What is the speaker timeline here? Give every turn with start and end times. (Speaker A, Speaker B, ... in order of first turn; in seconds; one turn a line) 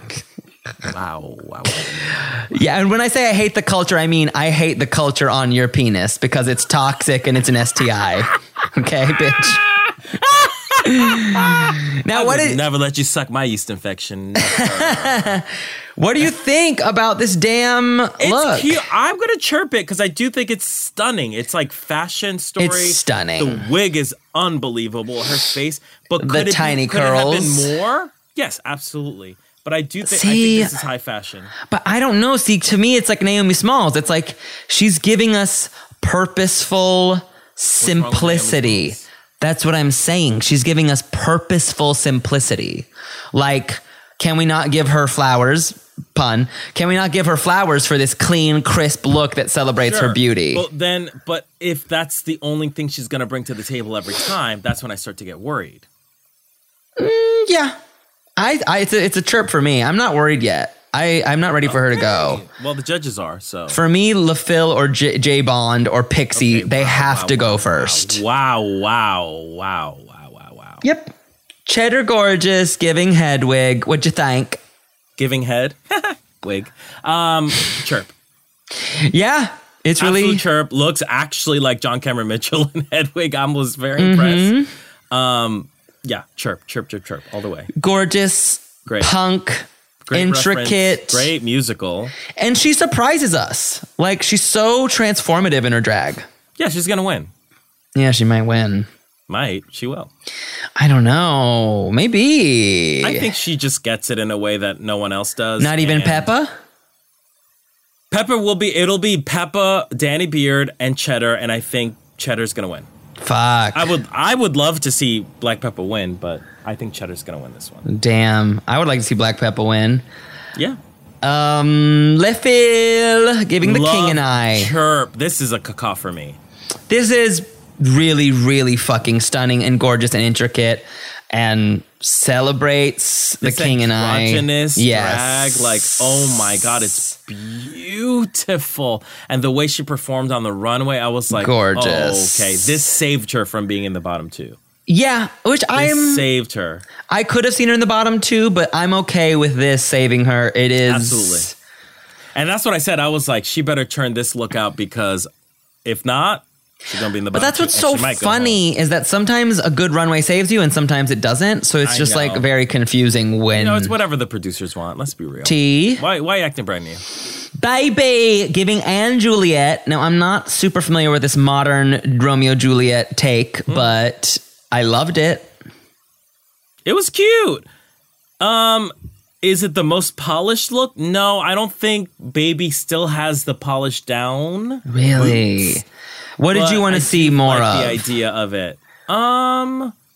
Speaker A: 0.9-2.3
Speaker B: 2.2-9.6
Speaker A: 10.3-15.4
Speaker B: 10.8-12.6
Speaker B: 14.4-18.8
Speaker A: 18.2-31.5
Speaker B: 22.6-23.6
Speaker B: 26.2-27.7
Speaker B: 30.0-30.7
Speaker B: 31.6-50.6
Speaker A: 37.8-39.0
Speaker A: 49.8-55.9
Speaker B: 57.0-57.8
Speaker B: 58.4-62.4
Speaker A: 61.6-63.8
Speaker B: 63.7-68.2
Speaker A: 66.3-70.8
Speaker B: 70.8-71.1
Speaker B: 71.7-74.6
Speaker A: 75.2-78.1
Speaker B: 78.8-80.4
Speaker A: 80.0-84.5
Speaker B: 84.0-84.7
Speaker A: 85.1-87.7
Speaker B: 87.8-91.3
Speaker A: 88.8-89.1
Speaker A: 90.0-92.1
Speaker B: 92.3-96.2
Speaker A: 96.6-97.3
Speaker B: 97.9-98.9
Speaker A: 99.3-100.1
Speaker B: 100.8-103.2
Speaker A: 103.0-106.3
Speaker B: 105.6-106.5
Speaker A: 108.1-112.9
Speaker B: 113.2-113.9
Speaker A: 113.7-117.9
Speaker B: 117.8-120.0
Speaker B: 121.2-124.7
Speaker A: 123.6-126.4
Speaker B: 126.9-136.0
Speaker A: 133.4-144.6
Speaker B: 141.3-142.7
Speaker B: 144.9-146.2
Speaker A: 145.7-146.8
Speaker B: 147.1-151.5
Speaker A: 150.8-151.5
Speaker A: 152.3-155.3
Speaker A: 155.8-158.6
Speaker B: 157.3-163.9
Speaker A: 161.8-162.4
Speaker A: 163.5-167.0
Speaker B: 165.4-166.0
Speaker B: 167.6-175.5
Speaker A: 176.8-177.7
Speaker A: 178.4-185.8
Speaker B: 184.9-185.8
Speaker B: 186.4-188.0
Speaker A: 186.5-189.9